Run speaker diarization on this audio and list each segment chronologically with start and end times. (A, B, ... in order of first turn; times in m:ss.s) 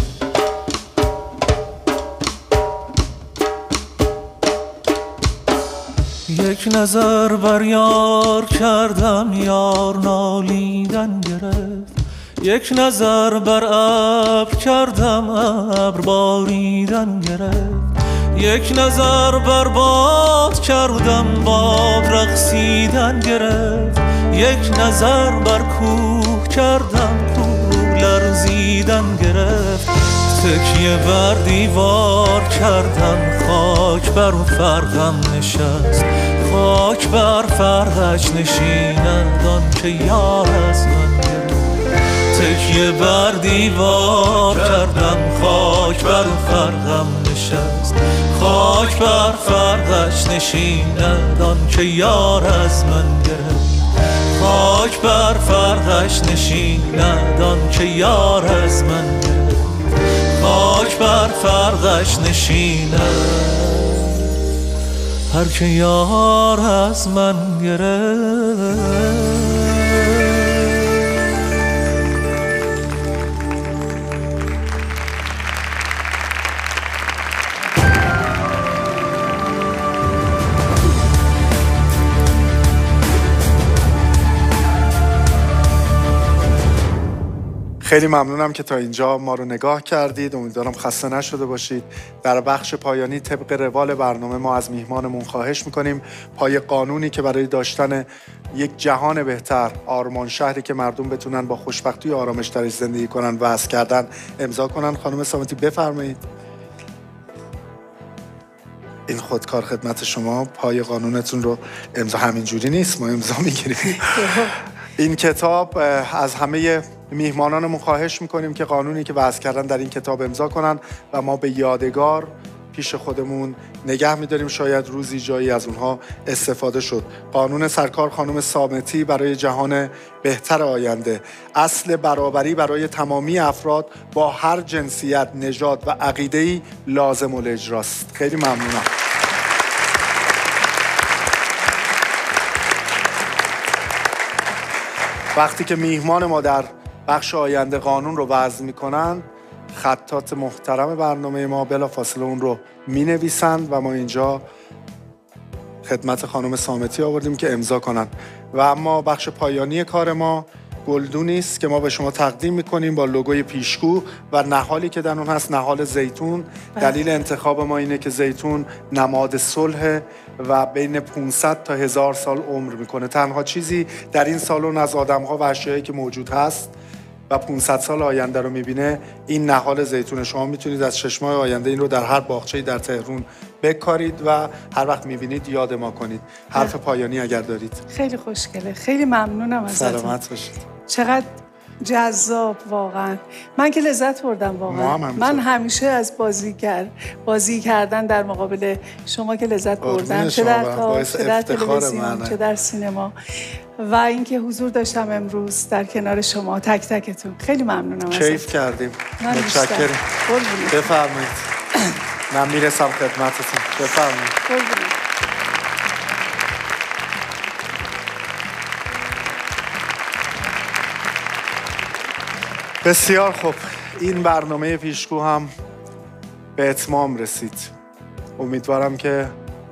0:06.3-1:04.4 A
1:05.3-1:10.4 A
1:27.8-1:46.2 B
1:49.1-2:18.9 B
1:54.3-1:54.5 C
2:25.3-2:34.4 B
2:35.8-2:56.7 B
2:57.3-3:07.8 B
3:07.9-3:10.2 C
3:09.7-3:10.6 B
3:10.9-3:28.5 C
3:14.7-3:15.4 B
3:19.8-3:22.4 B
3:28.1-3:30.0 B
3:29.2-3:30.8 C
3:30.7-3:31.5 B
3:32.3-3:34.4 B
3:34.5-3:35.0 C
3:42.8-3:45.5 B
3:46.6-3:47.7 B
3:48.4-3:49.4 B